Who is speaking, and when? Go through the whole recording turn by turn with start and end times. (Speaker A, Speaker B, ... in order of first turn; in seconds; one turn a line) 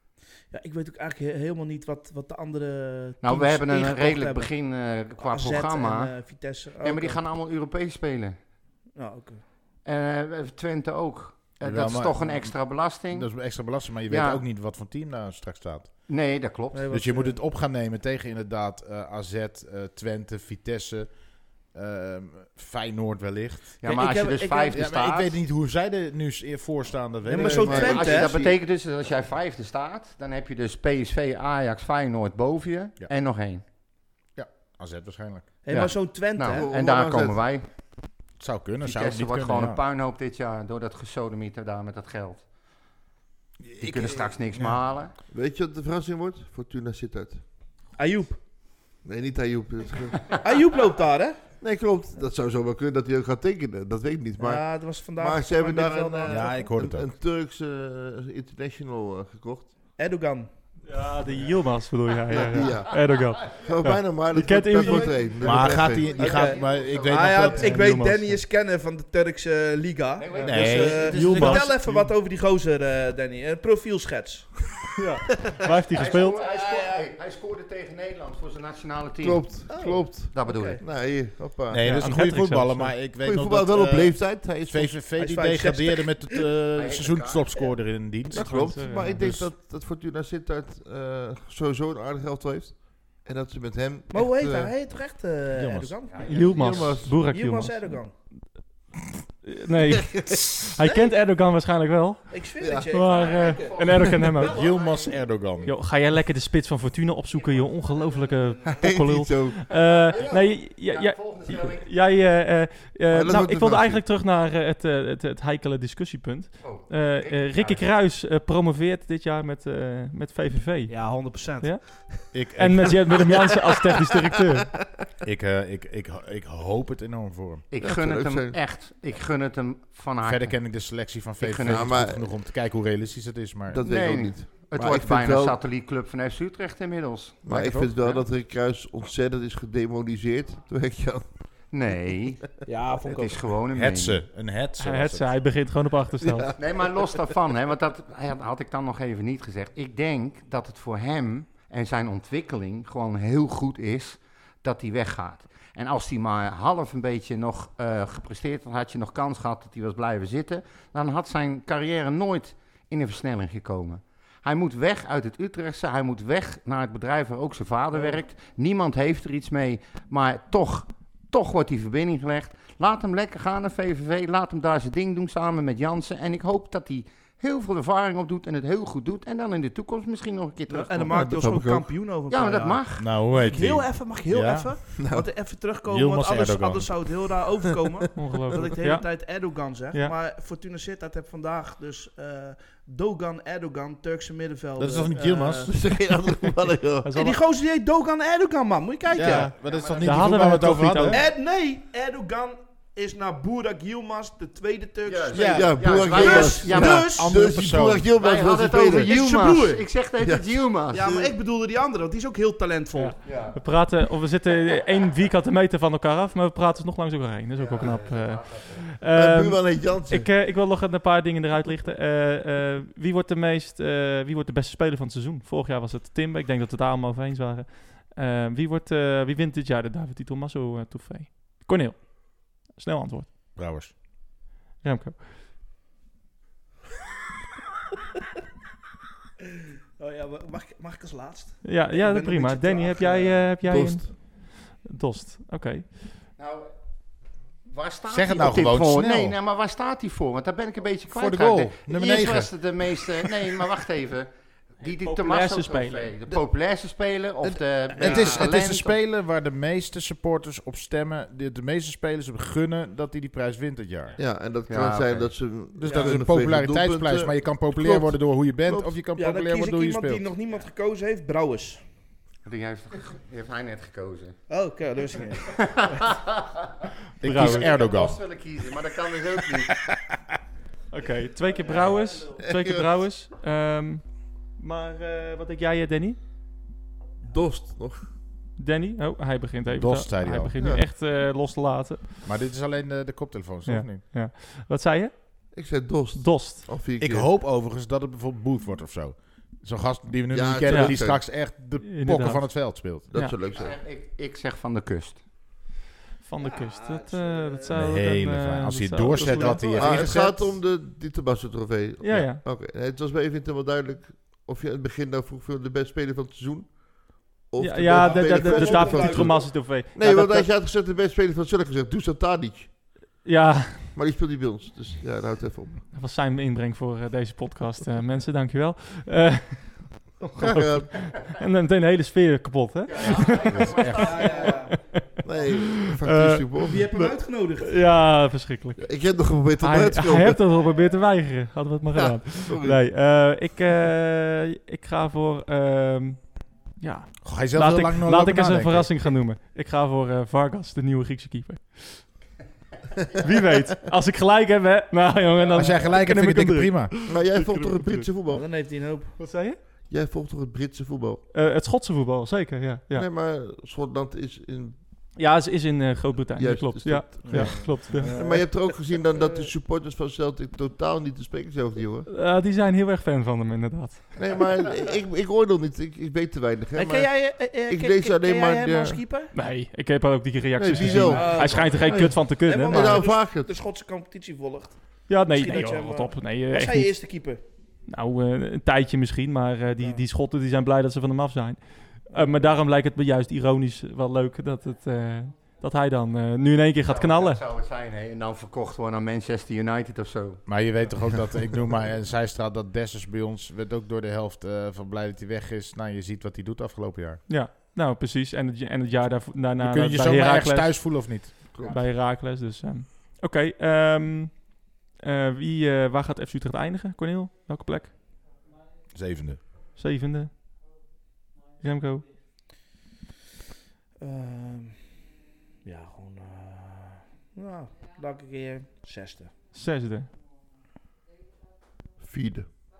Speaker A: 0.5-4.5
Speaker B: 3.2-6.2
Speaker A: 5.2-7.2
Speaker B: 6.8-8.4
Speaker A: 8.9-9.4
Speaker B: 9.8-13.3
Speaker C: 11.6-15.9
Speaker B: 14.1-14.4
Speaker B: 16.1-16.8
Speaker A: 16.7-17.4
Speaker C: 16.9-21.1
Speaker C: 21.7-23.9
Speaker B: 23.8-25.4
Speaker A: 23.9-24.7
Speaker C: 24.7-28.1
Speaker A: 27.2-28.5
Speaker D: 27.4-28.5
Speaker B: 27.5-33.6
Speaker C: 34.4-35.5
Speaker A: 35.6-36.7
Speaker B: 35.7-37.7
Speaker D: 36.5-37.4
Speaker C: 38.4-39.8
Speaker B: 38.8-42.4
Speaker C: 43.6-44.8
Speaker B: 43.8-45.1
Speaker D: 45.3-47.5
Speaker A: 47.9-48.4
Speaker D: 49.0-50.4
Speaker A: 50.4-51.4
Speaker D: 51.6-59.8
Speaker A: 54.4-56.7
Speaker C: 56.3-57.1
Speaker A: 60.0-60.5
Speaker E: 60.8-65.4
Speaker D: 62.3-66.2
Speaker A: 64.8-74.7
Speaker C: 65.4-67.8
Speaker B: 65.4-67.7
Speaker E: 67.5-68.4
Speaker B: 70.2-71.2
Speaker C: 70.4-72.1
Speaker E: 70.7-71.7
Speaker E: 74.9-76.4
Speaker B: 75.9-80.8
Speaker A: 76.3-77.1
Speaker D: 79.2-82.0
Speaker A: 79.7-80.8
Speaker C: 81.7-89.5
Speaker E: 81.8-83.0
Speaker D: 83.2-85.0
Speaker A: 85.1-86.5
Speaker B: 86.7-87.5
Speaker D: 88.3-94.7
Speaker E: 88.3-89.3
Speaker A: 94.1-96.5
Speaker C: 95.5-97.1
Speaker B: 96.1-96.7
Speaker E: 96.2-98.1
Speaker D: 96.4-97.2
Speaker A: 97.1-98.1
Speaker E: 99.4-104.7
Speaker D: 100.1-100.5
Speaker A: 102.3-105.0
Speaker D: 102.6-102.9
Speaker B: 103.1-105.1
Speaker C: 104.4-105.7
Speaker E: 105.6-124.8
Speaker A: 108.5-108.8
Speaker D: 108.7-109.7
Speaker B: 109.8-111.9
Speaker D: 113.1-114.0
Speaker B: 116.6-117.8
Speaker A: 120.9-122.3
Speaker C: 122.3-123.0
Speaker C: 125.2-127.6
Speaker B: 127.7-130.6
Speaker D: 127.8-128.6
Speaker C: 130.2-133.8
Speaker B: 131.4-132.0
Speaker D: 131.6-132.3
Speaker D: 133.7-135.6
Speaker B: 133.8-137.4
Speaker D: 137.4-141.3
Speaker C: 137.4-138.0
Speaker B: 141.7-144.2
Speaker A: 142.6-143.4
Speaker C: 143.7-145.3
Speaker E: 144.8-146.6
Speaker D: 146.2-146.5
Speaker B: 146.6-181.6
Speaker A: 180.7-195.7
Speaker C: 181.1-181.4
Speaker D: 181.3-181.9
Speaker B: 182.3-183.1
Speaker C: 183.0-184.8
Speaker D: 185.0-185.3
Speaker C: 185.8-186.9
Speaker E: 188.1-190.1
Speaker C: 194.8-195.7
Speaker D: 195.7-197.1
Speaker E: 197.0-197.4
Speaker A: 197.1-199.5
Speaker C: 199.1-201.2
Speaker E: 199.2-201.2
Speaker B: 199.6-200.2
Speaker A: 201.1-207.4
Speaker B: 205.1-207.1
Speaker C: 205.3-205.7
Speaker D: 205.4-209.1
Speaker C: 206.7-208.1
Speaker B: 208.2-211.1
Speaker A: 208.9-209.9
Speaker D: 210.2-211.3
Speaker A: 210.9-213.2
Speaker E: 212.9-233.3
Speaker B: 213.2-213.6
Speaker B: 217.5-218.8
Speaker D: 219.1-220.3
Speaker C: 233.6-233.9
Speaker E: 234.8-235.2
Speaker A: 240.0-243.5
Speaker E: 241.6-246.0
Speaker D: 243.6-244.1
Speaker B: 246.4-246.7
Speaker B: 247.7-259.0
Speaker C: 248.1-249.4
Speaker C: 251.1-253.3
Speaker E: 255.0-256.1
Speaker D: 257.4-258.4
Speaker C: 258.0-264.2
Speaker D: 264.2-269.0
Speaker B: 264.7-265.4
Speaker C: 265.8-270.3
Speaker A: 265.9-266.1
Speaker A: 269.1-271.8
Speaker B: 272.4-274.4
Speaker A: 274.5-276.0
Speaker B: 275.4-276.7
Speaker C: 277.2-278.2
Speaker E: 277.2-277.7
Speaker B: 277.3-279.8
Speaker C: 279.7-280.2
Speaker E: 280.9-286.2
Speaker A: 281.8-282.2
Speaker D: 282.4-282.9
Speaker D: 287.3-288.1
Speaker E: 288.6-292.2
Speaker C: 289.8-290.8
Speaker D: 290.6-290.9
Speaker C: 292.2-294.0
Speaker E: 293.6-295.4
Speaker D: 295.5-297.3
Speaker E: 296.1-296.7
Speaker C: 297.0-303.1
Speaker D: 300.3-301.2
Speaker E: 300.7-301.1
Speaker E: 301.8-303.3
Speaker D: 303.1-303.8
Speaker B: 303.5-305.2
Speaker E: 306.2-310.1
Speaker A: 306.4-307.7
Speaker C: 307.7-310.6
Speaker A: 309.1-310.1
Speaker D: 309.8-322.8
Speaker E: 312.0-312.4
Speaker E: 317.6-320.5
Speaker A: 317.9-319.6
Speaker E: 323.2-323.9
Speaker D: 323.9-325.8
Speaker E: 325.9-352.3
Speaker D: 330.4-331.0
Speaker B: 332.9-334.7
Speaker A: 333.7-334.8
Speaker D: 335.2-336.9
Speaker A: 336.6-337.9
Speaker D: 338.8-340.4
Speaker D: 341.9-342.8
Speaker C: 347.2-348.9
Speaker E: 353.2-358.1
Speaker C: 355.5-356.9
Speaker D: 357.1-358.4
Speaker A: 358.3-359.2
Speaker E: 359.2-359.6
Speaker D: 359.9-361.2
Speaker E: 361.3-363.1
Speaker D: 362.9-364.8
Speaker E: 365.1-368.3
Speaker D: 366.4-372.1
Speaker A: 367.2-369.5
Speaker E: 372.1-374.2
Speaker D: 374.2-379.0
Speaker A: 376.7-379.3
Speaker E: 379.3-383.2
Speaker D: 380.6-383.5
Speaker A: 380.9-387.4
Speaker E: 385.1-387.0
Speaker E: 387.9-397.4
Speaker B: 396.8-400.4
Speaker C: 400.4-407.2
Speaker E: 407.3-417.9
Speaker C: 409.6-411.4
Speaker D: 411.5-411.8
Speaker C: 418.9-419.4
Speaker E: 419.7-420.4
Speaker E: 421.6-422.1
Speaker A: 424.0-424.9
Speaker A: 425.6-429.4
Speaker E: 429.5-430.1
Speaker D: 432.0-432.5